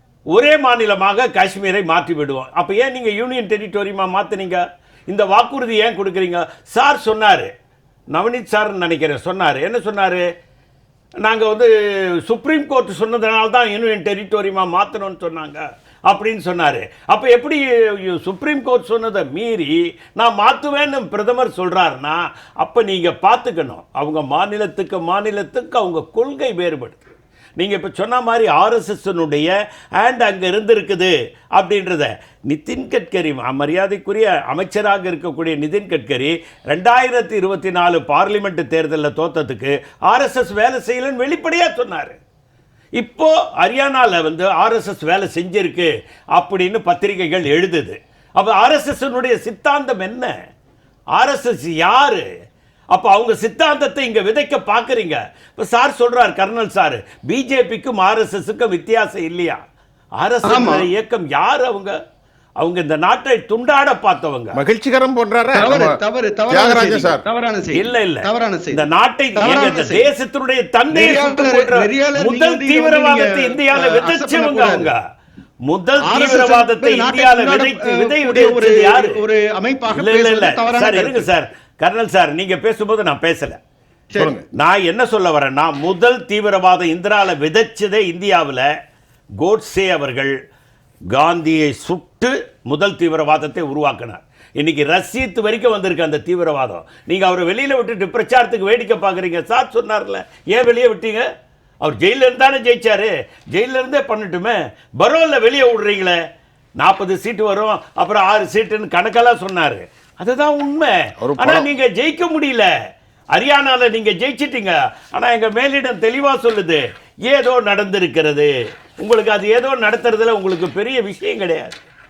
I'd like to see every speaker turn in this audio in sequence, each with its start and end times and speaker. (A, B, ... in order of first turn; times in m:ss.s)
0:00.3-0:07.5 A
0:08.1-0:10.2 A
0:11.2-0:27.0 A
0:27.6-0:42.2 A
0:43.0-0:50.3 A
0:51.1-0:52.2 A
0:52.9-0:59.6 A
1:00.2-1:02.0 A
1:00.4-1:00.9 B
1:02.6-1:04.6 A
1:04.5-1:06.0 C
1:05.5-1:10.1 B
1:06.5-1:07.2 C
1:07.7-1:15.0 A
1:10.9-1:14.9 B
1:15.7-1:19.2 A
1:16.0-1:21.3 B
1:19.9-1:23.6 A
1:24.2-1:24.4 C
1:24.5-1:28.7 A
1:29.4-1:30.3 A
1:31.1-1:41.2 A
1:41.8-1:46.2 A
1:46.8-1:52.7 A
1:51.2-1:51.7 C
1:53.3-2:01.8 A